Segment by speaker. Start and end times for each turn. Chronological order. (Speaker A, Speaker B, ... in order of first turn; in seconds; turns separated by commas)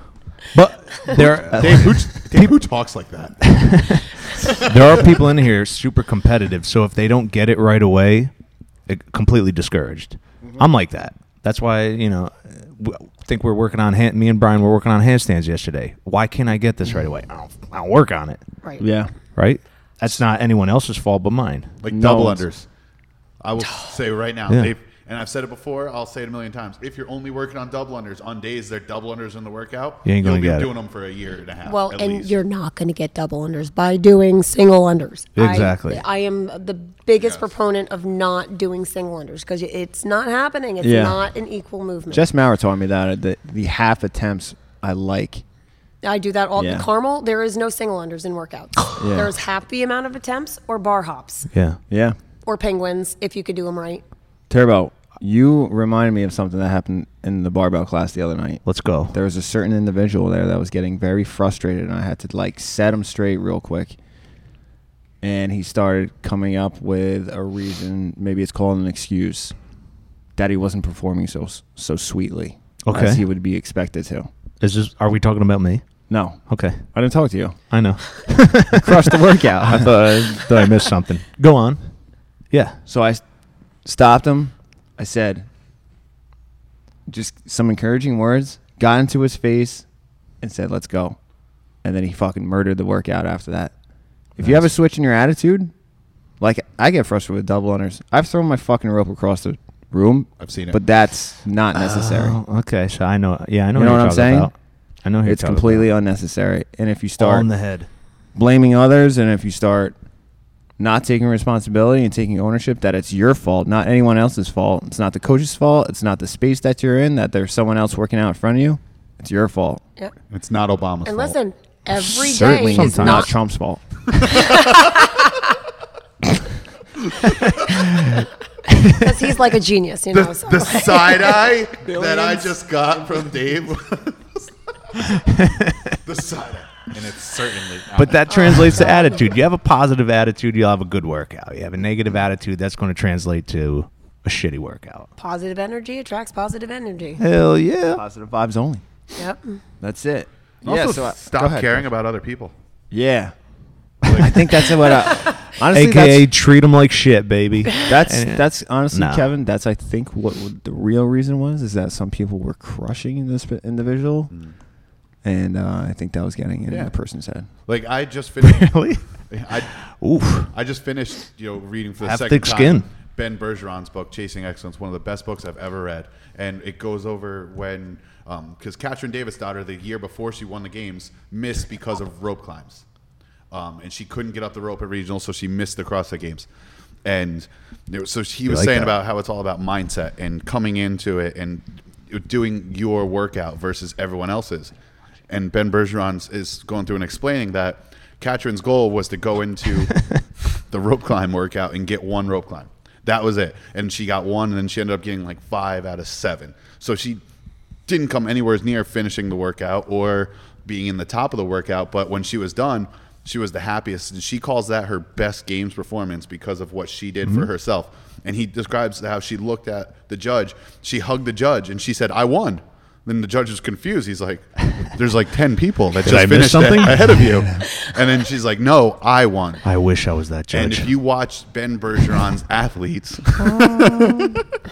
Speaker A: 0.5-2.5, Speaker B: 1.1-1.9, Speaker C: 1.5-3.5, Speaker A: 3.4-8.3, Speaker C: 4.4-5.1, Speaker A: 8.9-18.4, Speaker B: 18.8-19.1, Speaker A: 19.4-21.8, Speaker C: 21.8-22.7, Speaker B: 21.9-22.5, Speaker C: 23.4-32.3, Speaker D: 23.6-23.9, Speaker A: 30.1-30.7, Speaker D: 31.6-42.3, Speaker A: 35.4-36.0, Speaker C: 37.2-37.5, Speaker B: 40.8-41.2, Speaker B: 42.1-45.4, Speaker D: 46.0-51.5, Speaker B: 46.6-46.9, Speaker B: 49.0-49.3, Speaker A: 51.5-51.8, Speaker B: 51.9-52.2, Speaker D: 52.5-54.0, Speaker B: 54.5-64.0, Speaker A: 58.7-59.2, Speaker B: 65.2-69.5, Speaker B: 70.4-74.3, Speaker A: 72.9-73.2, Speaker A: 74.6-75.8, Speaker B: 76.1-77.6, Speaker A: 76.5-76.9, Speaker A: 77.7-81.8, Speaker B: 78.7-80.5, Speaker A: 82.5-82.8, Speaker B: 82.9-83.2, Speaker B: 83.8-85.5, Speaker B: 87.1-89.8, Speaker B: 90.4-91.2, Speaker B: 91.8-93.7, Speaker B: 94.4-95.7, Speaker B: 96.4-102.4, Speaker C: 100.4-100.8, Speaker A: 101.7-104.5, Speaker B: 103.8-104.5, Speaker A: 105.0-105.9, Speaker B: 105.2-107.5, Speaker A: 107.2-107.9, Speaker B: 108.3-109.9, Speaker B: 110.8-119.8, Speaker C: 120.3-121.4, Speaker D: 121.0-123.3, Speaker B: 122.0-123.8, Speaker A: 122.5-123.3, Speaker C: 124.2-124.9, Speaker D: 124.3-125.5, Speaker D: 128.9-132.4, Speaker C: 130.1-134.5, Speaker A: 135.1-135.8, Speaker C: 136.1-138.9, Speaker A: 138.0-145.1, Speaker D: 138.3-139.2, Speaker D: 145.2-147.2, Speaker A: 147.2-148.0, Speaker B: 147.9-148.8, Speaker D: 149.2-149.6, Speaker B: 149.8-151.9, Speaker C: 150.6-152.5, Speaker B: 152.9-153.3, Speaker B: 154.0-156.3, Speaker C: 154.0-154.4, Speaker A: 155.6-159.3, Speaker B: 157.8-164.3, Speaker B: 165.2-167.5, Speaker C: 166.7-166.9, Speaker C: 167.7-169.7, Speaker A: 168.4-169.0, Speaker A: 169.6-170.5, Speaker C: 170.5-182.8, Speaker A: 172.0-172.9, Speaker C: 183.5-186.5, Speaker C: 187.1-194.7, Speaker A: 188.5-189.0, Speaker C: 195.3-207.2, Speaker C: 207.9-229.6, Speaker A: 226.0-227.5, Speaker A: 229.6-230.9, Speaker C: 230.5-234.4